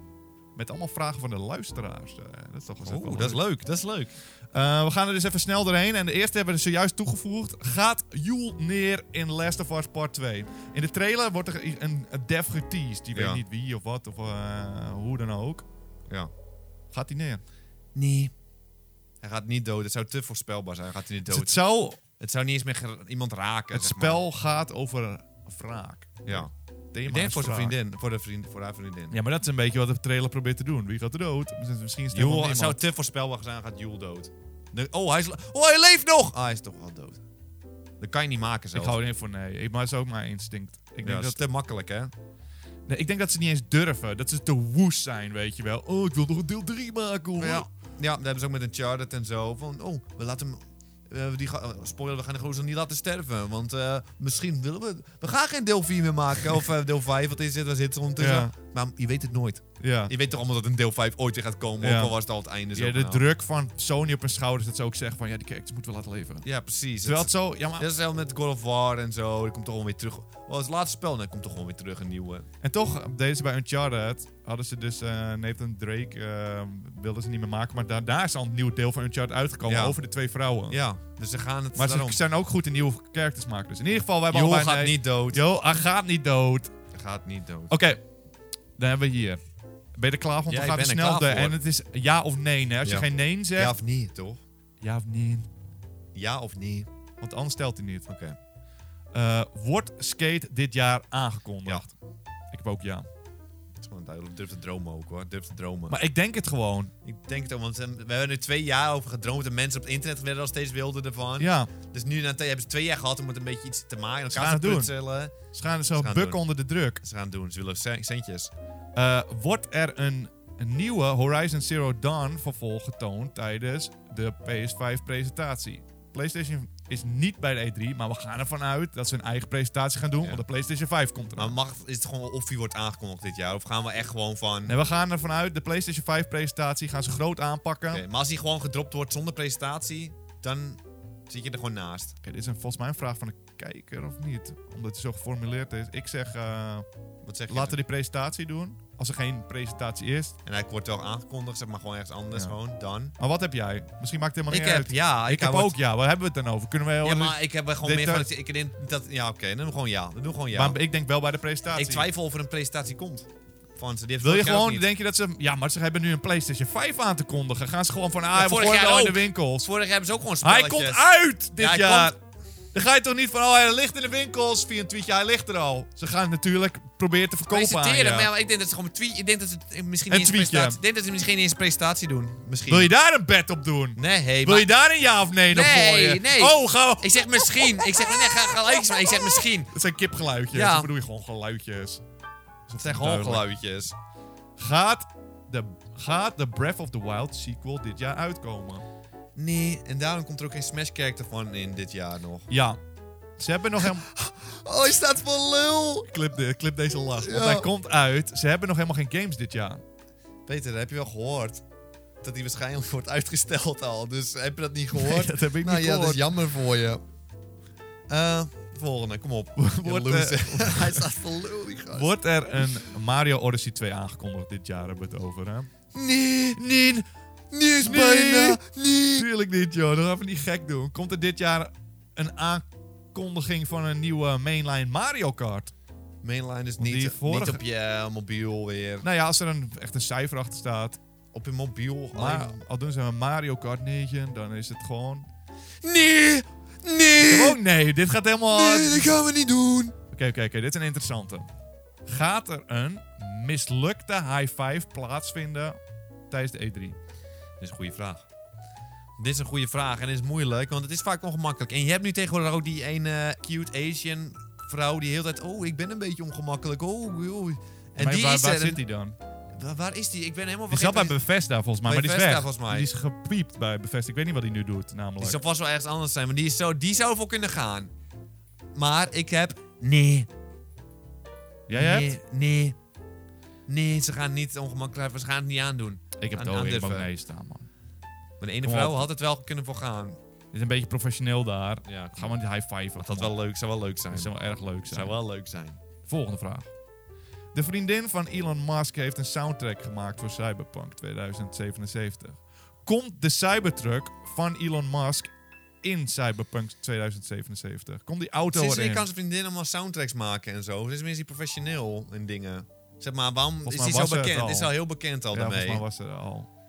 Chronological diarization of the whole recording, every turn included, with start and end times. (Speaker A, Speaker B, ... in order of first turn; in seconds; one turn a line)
Speaker A: 0.6-3.4
Speaker B: 2.8-4.2
Speaker A: 4.5-15.7
Speaker B: 13.1-13.4
Speaker A: 16.9-17.4
Speaker B: 17.9-18.3
Speaker B: 19.2-21.6
Speaker A: 21.3-22.0
Speaker B: 22.2-24.2
Speaker A: 23.7-27.8
Speaker B: 26.3-26.5
Speaker B: 27.1-29.2
Speaker A: 29.1-32.8
Speaker B: 32.1-37.2
Speaker B: 38.0-39.0
Speaker A: 38.8-41.4
Speaker B: 41.0-42.1
Speaker A: 42.9-47.7
Speaker B: 47.4-63.2
Speaker A: 58.2-58.5
Speaker A: 59.8-60.1
Speaker A: 61.8-62.1
Speaker A: 62.7-66.5
Speaker B: 66.4-72.5
Speaker A: 67.0-67.9
Speaker A: 72.6-80.8
Speaker B: 79.7-80.0
Speaker B: 80.7-82.2
Speaker A: 81.8-86.7
Speaker B: 84.3-85.4
Speaker B: 86.9-87.7
Speaker A: 87.7-88.0
Speaker A: 88.8-89.4
Speaker A: 90.0-93.8
Speaker B: 90.5-91.6
Speaker B: 92.8-94.4
Speaker A: 94.8-95.5
Speaker B: 96.1-96.9
Speaker A: 97.2-98.1
Speaker B: 98.1-98.4
Speaker A: 99.1-101.9
Speaker A: 102.5-103.1
Speaker B: 103.8-106.0
Speaker A: 105.9-106.9
Speaker B: 107.0-115.3
Speaker A: 111.4-111.7
Speaker A: 114.3-114.9
Speaker A: 115.5-117.0
Speaker B: 115.9-116.4
Speaker B: 117.0-118.5
Speaker A: 119.0-131.6
Speaker B: 131.4-134.8
Speaker A: 134.7-138.0
Speaker B: 137.9-142.2
Speaker A: 142.2-146.9
Speaker B: 147.2-147.8
Speaker A: 147.5-150.3
Speaker B: 150.4-153.1
Speaker A: 153.2-158.3
Speaker B: 154.5-155.8
Speaker B: 157.0-160.8
Speaker A: 160.5-162.1
Speaker B: 161.8-164.9
Speaker A: 164.2-169.7
Speaker B: 168.3-171.1
Speaker A: 170.4-172.2
Speaker B: 171.6-172.2
Speaker A: 172.7-178.3
Speaker B: 177.5-182.9
Speaker A: 180.1-180.8
Speaker A: 182.7-187.7
Speaker B: 184.0-184.7
Speaker B: 185.5-189.7
Speaker A: 189.7-192.0
Speaker B: 190.5-190.9
Speaker A: 192.7-193.5
Speaker B: 192.8-193.9
Speaker A: 194.6-198.8
Speaker B: 199.4-202.5
Speaker A: 202.5-202.8
Speaker A: 203.4-204.1
Speaker B: 203.8-206.1
Speaker A: 206.1-209.8
Speaker B: 207.2-207.7
Speaker B: 210.5-211.6
Speaker B: 212.2-217.0
Speaker A: 214.9-216.2
Speaker B: 218.1-222.1
Speaker A: 219.6-221.1
Speaker A: 221.9-225.7
Speaker B: 225.9-226.6
Speaker A: 226.6-227.1
Speaker B: 227.5-229.3
Speaker A: 227.8-228.6
Speaker A: 229.2-235.7
Speaker B: 236.2-239.1
Speaker A: 236.8-237.6
Speaker A: 239.0-241.0
Speaker B: 241.3-242.6
Speaker A: 242.2-245.3
Speaker B: 245.8-247.6
Speaker A: 247.2-249.2
Speaker B: 248.5-249.9
Speaker A: 250.1-251.5
Speaker A: 252.1-255.8
Speaker A: 256.3-257.0
Speaker B: 257.6-258.2
Speaker B: 259.2-268.8
Speaker A: 268.0-269.1
Speaker B: 269.5-271.2
Speaker A: 270.7-275.4
Speaker B: 271.9-272.9
Speaker B: 275.2-277.9
Speaker B: 278.8-280.3
Speaker A: 281.7-282.1
Speaker B: 281.7-282.8
Speaker B: 283.7-287.1
Speaker A: 286.2-287.7
Speaker B: 288.4-290.2
Speaker A: 288.6-289.1
Speaker A: 290.5-293.3
Speaker B: 291.9-292.4
Speaker B: 293.0-294.3
Speaker A: 294.1-295.2
Speaker B: 294.9-295.8
Speaker A: 296.1-296.7
Speaker A: 297.5-305.3
Speaker A: 305.8-309.1
Speaker B: 308.5-315.8
Speaker A: 313.6-314.8
Speaker A: 315.3-316.5